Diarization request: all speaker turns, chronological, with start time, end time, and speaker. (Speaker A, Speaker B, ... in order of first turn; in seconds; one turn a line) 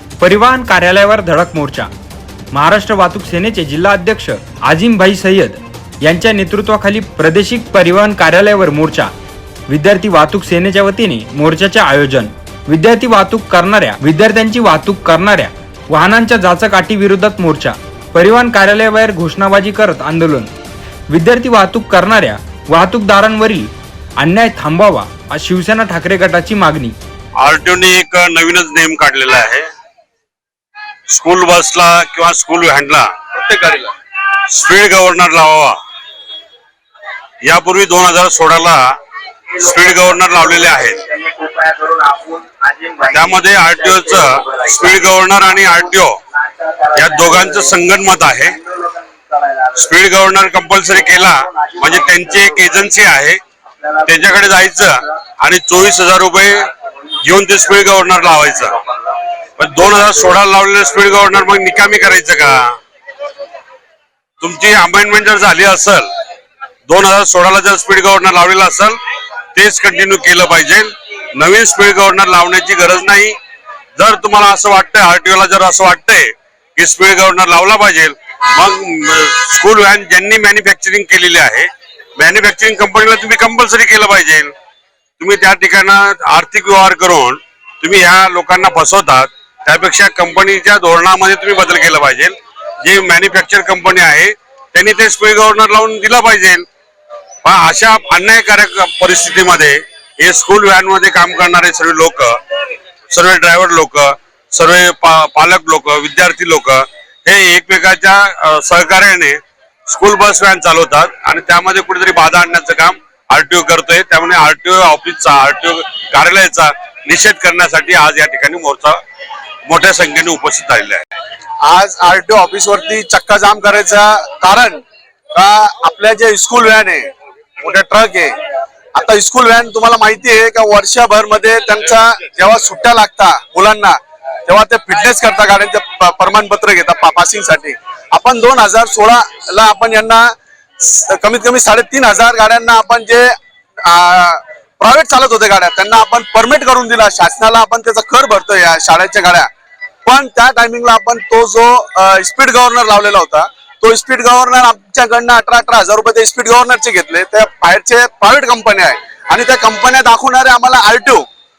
Speaker A: 0.2-1.9
Speaker A: 2.5-9.1
Speaker A: 9.7-20.5
Speaker A: 21.1-27.0
Speaker B: 27.4-29.7
Speaker B: 31.1-33.1
Speaker C: 33.4-33.9
Speaker B: 34.5-35.8
Speaker B: 37.4-39.0
Speaker B: 39.5-41.1
Speaker C: 41.3-42.0
Speaker B: 43.0-46.2
Speaker B: 46.9-48.6
Speaker B: 49.7-53.4
Speaker B: 54.0-56.7
Speaker B: 57.2-58.9
Speaker B: 59.6-62.8
Speaker B: 64.4-66.1
Speaker B: 66.9-69.0
Speaker B: 69.5-73.4
Speaker B: 74.0-84.5
Speaker B: 85.2-96.7
Speaker B: 97.4-102.4
Speaker B: 103.1-119.0
Speaker B: 119.7-121.1
Speaker C: 121.6-127.1
Speaker C: 127.6-128.4
Speaker C: 128.9-134.0
Speaker C: 134.5-143.3
Speaker C: 143.8-149.5
Speaker C: 150.1-161.2